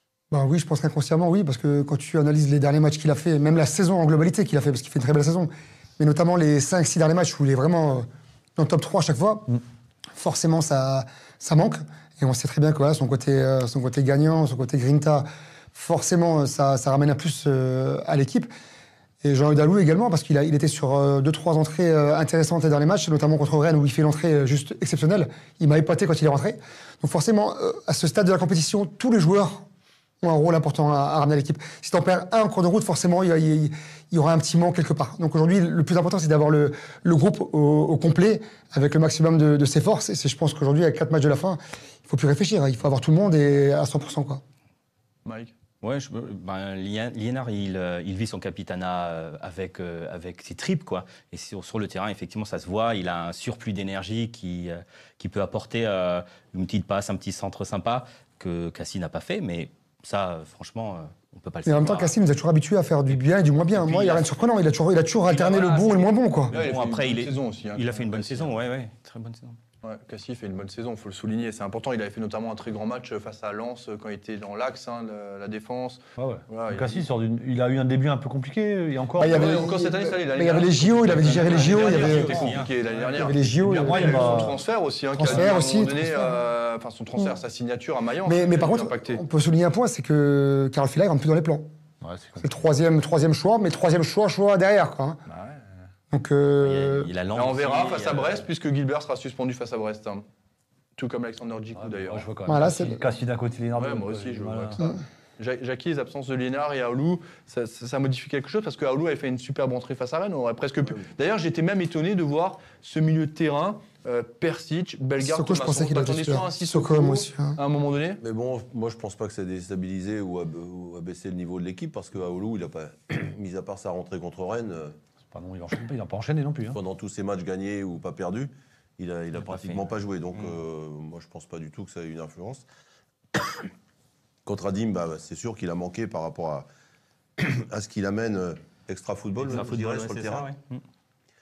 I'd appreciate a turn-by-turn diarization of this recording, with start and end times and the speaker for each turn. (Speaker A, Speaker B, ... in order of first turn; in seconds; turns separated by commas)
Speaker A: 0.3-9.6, Speaker A: 10.2-18.5, Speaker A: 19.2-29.7, Speaker A: 30.2-44.4, Speaker B: 45.2-45.5, Speaker C: 45.8-62.2, Speaker A: 61.6-66.6, Speaker B: 63.8-64.3, Speaker B: 65.3-68.5, Speaker C: 66.5-69.6, Speaker B: 69.8-77.1, Speaker D: 76.2-79.6, Speaker A: 79.2-82.5, Speaker B: 79.2-89.2, Speaker C: 81.4-82.7, Speaker A: 83.1-84.5, Speaker D: 83.8-84.6, Speaker A: 85.1-86.4, Speaker A: 88.2-91.7, Speaker D: 92.0-92.5, Speaker A: 92.4-95.2, Speaker B: 95.3-95.7, Speaker A: 96.1-97.1, Speaker C: 96.6-98.5, Speaker B: 97.3-100.2, Speaker B: 101.0-102.3, Speaker D: 101.8-104.9, Speaker A: 102.5-103.0, Speaker B: 103.8-118.2, Speaker A: 115.2-117.6, Speaker E: 118.2-125.0, Speaker D: 125.3-126.8, Speaker E: 126.7-132.7, Speaker C: 129.4-129.8, Speaker E: 133.3-133.7, Speaker E: 134.4-136.7, Speaker E: 137.4-140.5, Speaker C: 139.4-140.8